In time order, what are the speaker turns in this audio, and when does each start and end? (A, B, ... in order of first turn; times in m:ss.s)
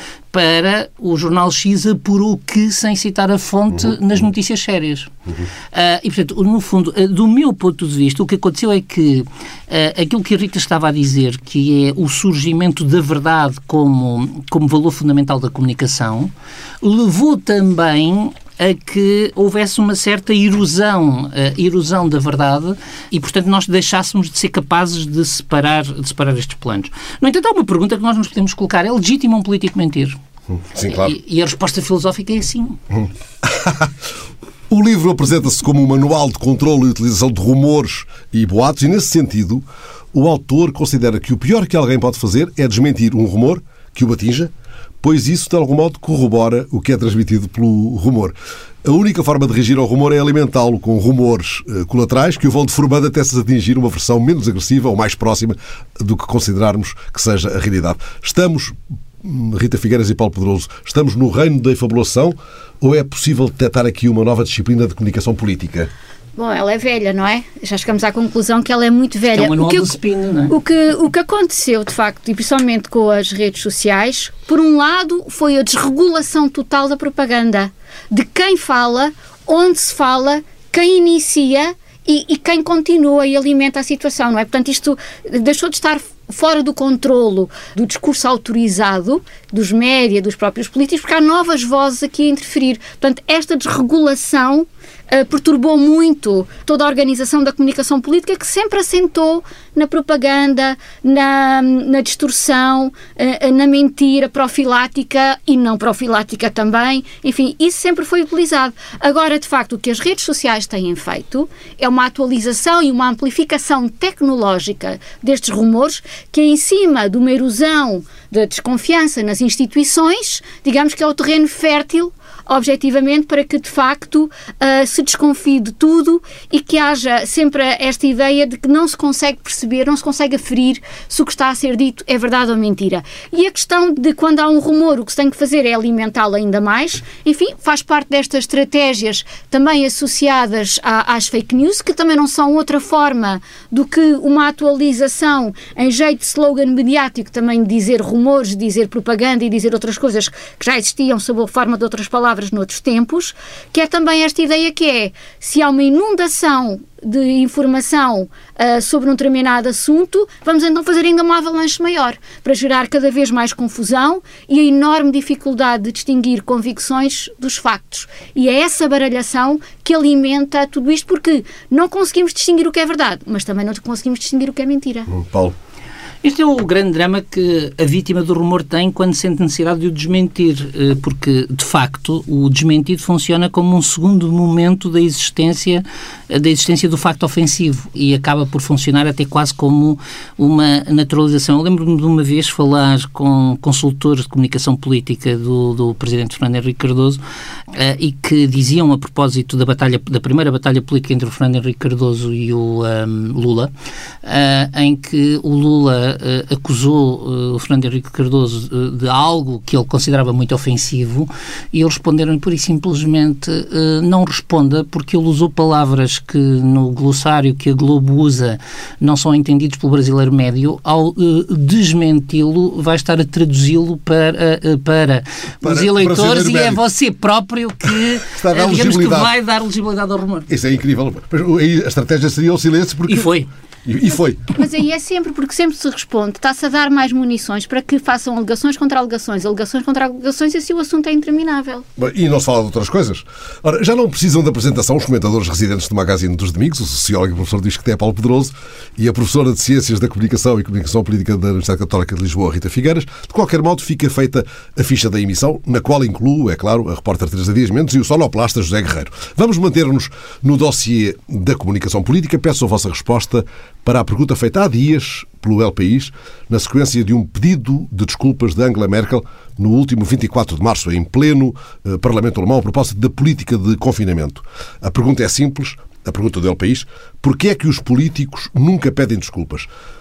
0:00.3-0:05.1 A
0:05.7-0:16.3 A
0:16.8-0:30.2 A
0:30.5-0:31.1 B
0:30.9-0:32.8 A
0:32.9-0:33.9 B
0:34.7-1:05.9 B
1:06.4-1:10.0 C
1:09.3-1:10.5 A
1:10.5-2:55.1 C
2:55.1-2:55.5 B
2:56.2-3:17.2 A
3:17.7-3:23.7 A
3:24.2-3:50.5 A
3:45.6-3:46.8 B
3:47.9-3:49.3 B
3:50.5-3:53.3 B
3:53.1-3:53.5 A
3:53.8-3:54.5 B
3:54.4-4:01.8 C
4:02.0-4:39.7 B